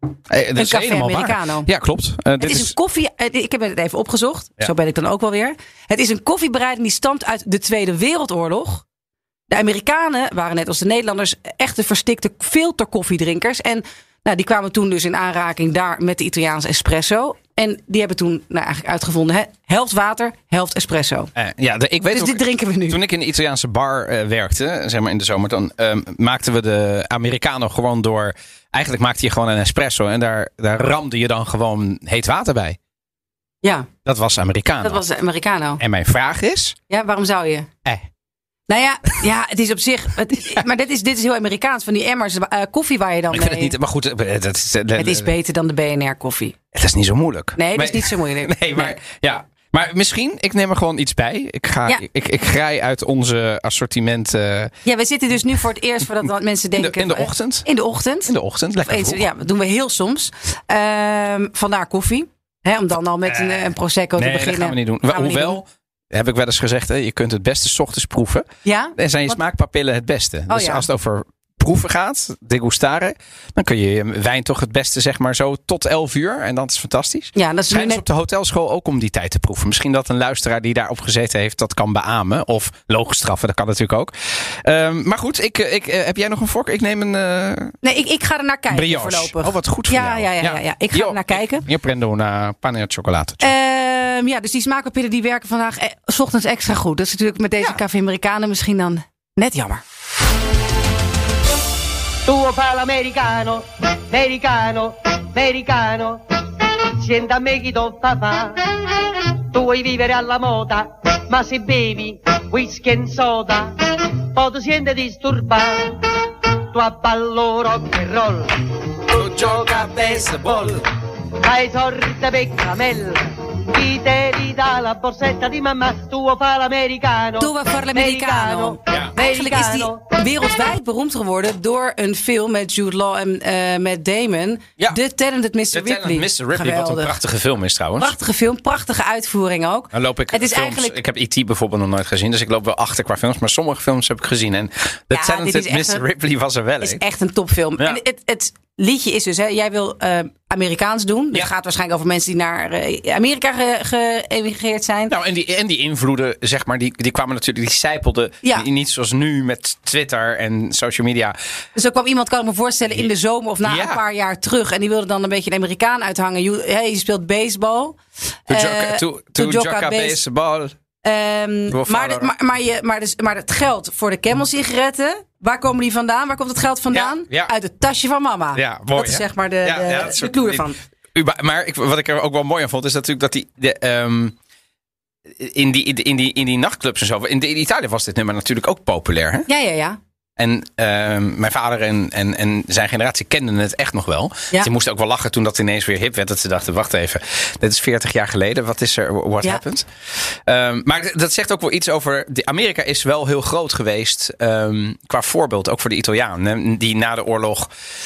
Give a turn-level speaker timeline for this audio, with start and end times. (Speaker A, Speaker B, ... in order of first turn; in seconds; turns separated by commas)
Speaker A: 0.3-2.7, Speaker B: 0.6-1.7, Speaker B: 2.4-8.8, Speaker B: 9.5-21.3, Speaker A: 21.4-32.8, Speaker B: 22.1-23.0, Speaker B: 33.6-33.9, Speaker A: 34.0-35.0, Speaker B: 34.8-35.8, Speaker A: 35.8-36.8, Speaker B: 36.9-37.7, Speaker B: 38.7-43.7, Speaker A: 43.3-45.3, Speaker B: 45.0-46.5, Speaker A: 46.7-54.7, Speaker B: 47.6-49.0, Speaker B: 54.8-58.3, Speaker A: 56.8-57.6, Speaker A: 58.3-59.2, Speaker B: 58.8-65.6, Speaker A: 63.2-87.8, Speaker B: 68.6-69.4, Speaker B: 70.5-70.9, Speaker B: 77.3-78.0, Speaker B: 87.8-91.7, Speaker A: 88.7-93.5, Speaker B: 93.4-99.8, Speaker C: 102.2-116.0, Speaker C: 116.7-120.8, Speaker A: 119.1-120.8, Speaker C: 121.4-130.0, Speaker B: 127.4-137.2, Speaker A: 128.9-129.1, Speaker A: 135.7-138.2, Speaker B: 138.0-141.0, Speaker A: 139.9-147.0, Speaker B: 145.1-146.0, Speaker B: 146.8-155.1, Speaker A: 155.1-161.3, Speaker B: 161.8-170.2, Speaker A: 163.6-164.0, Speaker A: 168.5-170.7, Speaker B: 171.0-180.8, Speaker A: 171.7-172.3, Speaker A: 176.9-177.5, Speaker A: 178.5-184.3, Speaker A: 185.3-189.5, Speaker B: 189.5-190.0, Speaker A: 190.4-207.7